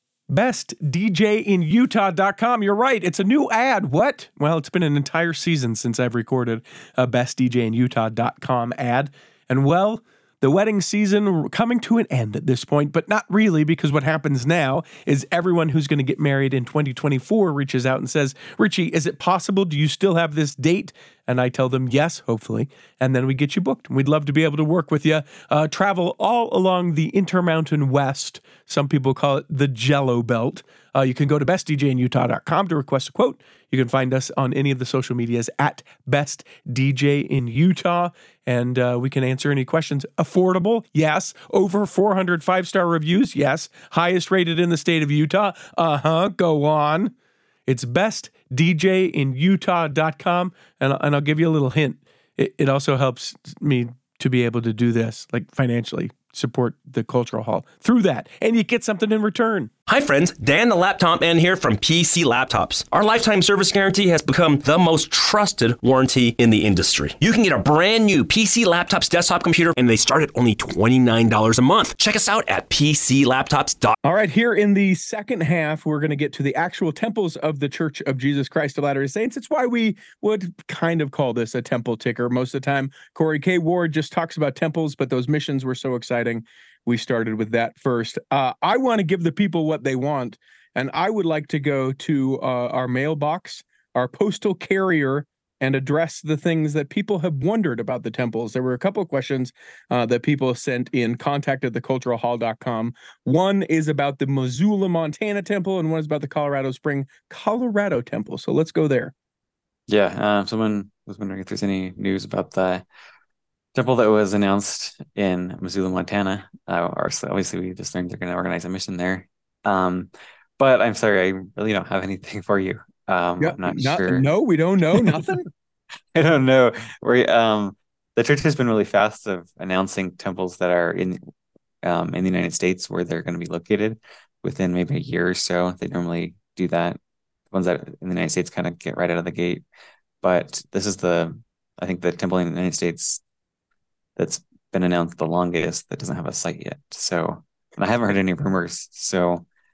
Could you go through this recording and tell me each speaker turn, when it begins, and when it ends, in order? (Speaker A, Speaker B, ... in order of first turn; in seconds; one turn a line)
Speaker A: 0.3-47.1
Speaker A: 47.7-59.7
Speaker B: 59.9-74.0
Speaker A: 74.0-109.1
Speaker C: 109.9-112.8
Speaker C: 113.7-124.3
Speaker A: 123.4-125.5
Speaker C: 125.0-125.2
Speaker C: 126.1-131.2
Speaker C: 131.8-137.0
Speaker C: 137.5-139.6
Speaker C: 140.2-143.2
Speaker C: 144.2-149.4